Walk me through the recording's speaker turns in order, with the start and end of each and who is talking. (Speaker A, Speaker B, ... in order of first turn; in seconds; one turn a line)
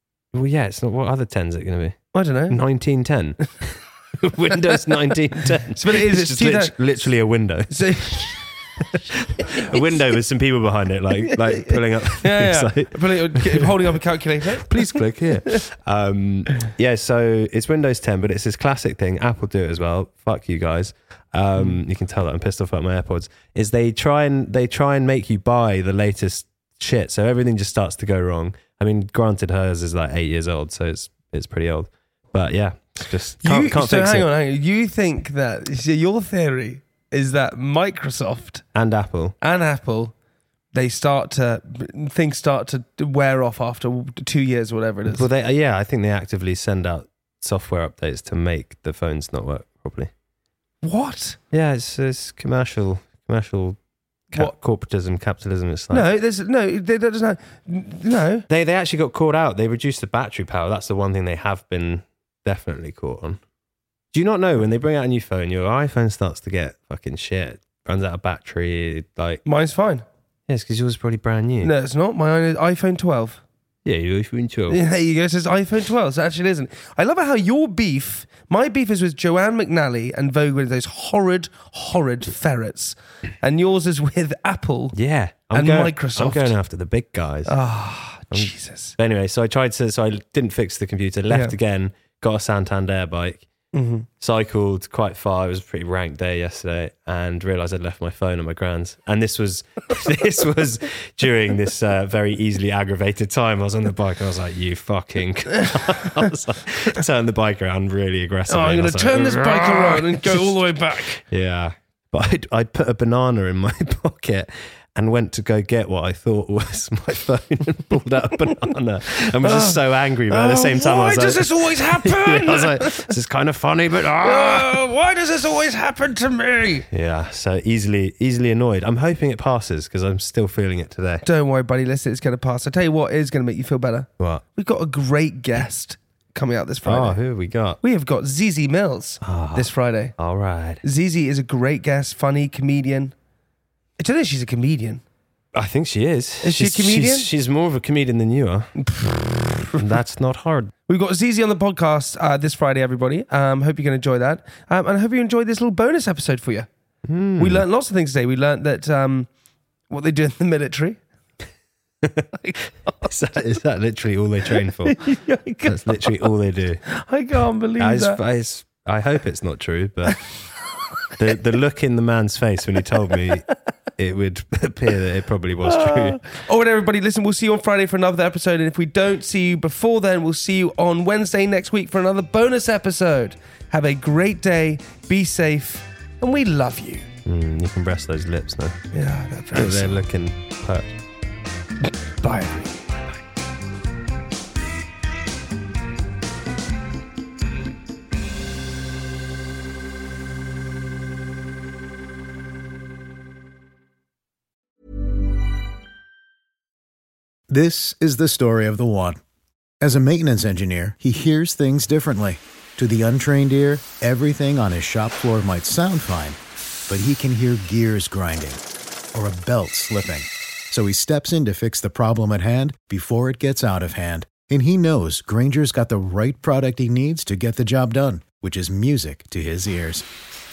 Speaker A: 0.3-13.9
Speaker B: 2.1-2.6
Speaker B: 5.7-6.7
Speaker B: 7.7-8.4
Speaker B: 9.3-9.8
Speaker B: 11.2-15.0
Speaker A: 14.5-34.3
Speaker B: 33.4-38.6
Speaker A: 38.7-39.3
Speaker B: 39.4-40.1
Speaker B: 40.7-45.3
Speaker A: 45.1-50.1
Speaker B: 50.8-51.4
Speaker A: 51.5-53.8
Speaker A: 54.3-56.1
Speaker B: 55.9-58.5
Speaker A: 58.5-63.4
Speaker A: 64.1-69.4
Speaker B: 69.4-70.0
Speaker A: 70.5-71.7
Speaker B: 71.6-73.4
Speaker A: 73.8-74.8
Speaker B: 74.7-85.0
Speaker A: 84.9-87.6
Speaker B: 85.5-86.5
Speaker B: 87.5-89.0
Speaker A: 88.3-93.5
Speaker B: 91.3-91.5
Speaker B: 93.7-94.1
Speaker A: 94.2-124.8
Speaker B: 108.5-111.2
Speaker B: 119.4-123.1
Speaker B: 124.2-126.8
Speaker A: 126.9-131.2
Speaker B: 131.2-137.2
Speaker A: 136.8-137.8
Speaker B: 137.8-140.2
Speaker A: 139.2-140.8
Speaker B: 140.8-143.1
Speaker B: 144.0-145.0
Speaker A: 145.5-148.7
Speaker B: 146.4-147.3
Speaker B: 148.8-149.8
Speaker A: 149.8-150.7
Speaker B: 150.9-156.7
Speaker A: 157.1-157.6
Speaker B: 157.4-159.3
Speaker B: 159.9-161.0
Speaker A: 162.0-162.3
Speaker B: 162.4-163.1
Speaker A: 163.0-166.8
Speaker B: 164.8-166.3
Speaker B: 166.8-168.2
Speaker A: 167.8-170.2
Speaker A: 171.2-176.2
Speaker B: 175.6-187.1
Speaker A: 187.2-188.8
Speaker B: 188.9-190.0
Speaker A: 189.5-190.9
Speaker B: 191.8-192.7
Speaker C: 207.5-209.2
Speaker C: 209.8-218.6
Speaker C: 219.1-230.0